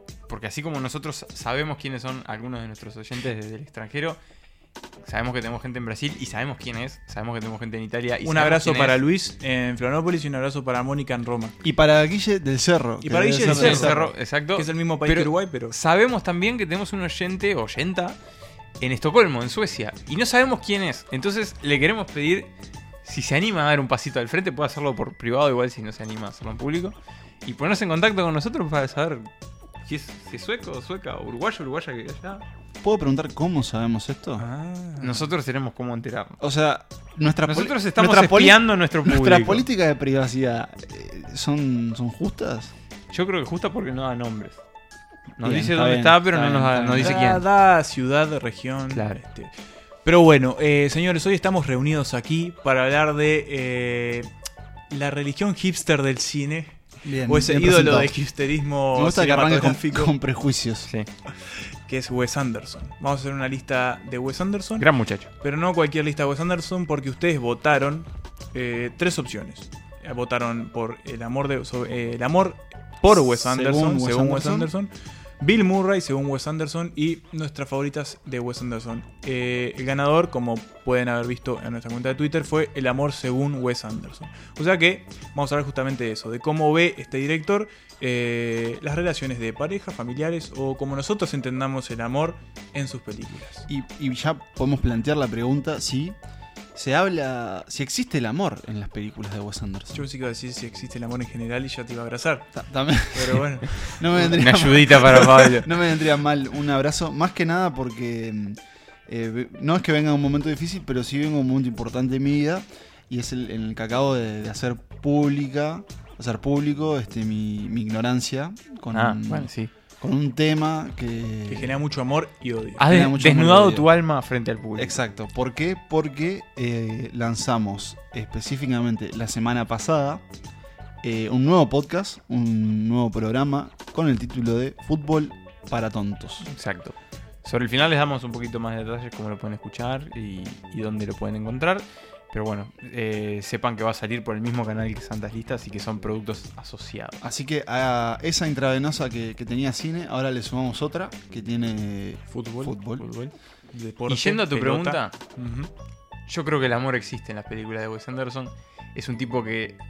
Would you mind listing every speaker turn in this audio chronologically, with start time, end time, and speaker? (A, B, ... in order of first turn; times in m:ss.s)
0:00.3-0:04.2 A
0:05.0-0:09.0 A
0:08.2-0:11.5 B
0:11.6-0:14.0 C
0:13.0-0:15.8 B
0:13.4-0:18.2 A
0:18.8-0:22.5 A
0:23.0-0:29.3 A
0:29.8-0:32.4 A
0:32.8-0:34.5 C
0:34.4-0:35.3 B
0:35.0-0:36.4 A
0:36.4-0:42.7 C
0:37.4-0:39.6 A
0:43.1-0:44.6 A
0:45.4-0:47.4 A
0:45.4-0:47.2 C
0:47.0-0:49.5 B
0:48.9-0:49.2 A
0:50.0-0:54.3 B
0:54.9-1:00.1 B
0:57.0-0:58.1 C
0:58.9-1:00.9 C
1:01.9-1:04.9 B
1:04.8-1:05.3 A
1:05.4-1:33.6 B
1:13.2-1:14.7 C
1:33.7-1:36.2 C
1:36.7-1:40.1 C
1:39.9-1:42.5 B
1:42.5-2:01.8 C
1:43.1-1:43.7 B
1:44.2-1:45.7 A
1:58.9-1:59.7 A
2:01.5-2:02.9 B
2:02.8-2:04.9 A
2:02.8-2:03.9 C
2:04.8-2:10.2 C
2:11.0-2:16.5 C
2:16.4-2:27.2 A
2:27.2-2:33.0 C
2:32.3-2:32.7 B
2:33.0-2:33.3 A
2:33.7-2:35.7 B
2:34.1-2:35.2 A
2:36.3-2:39.8 A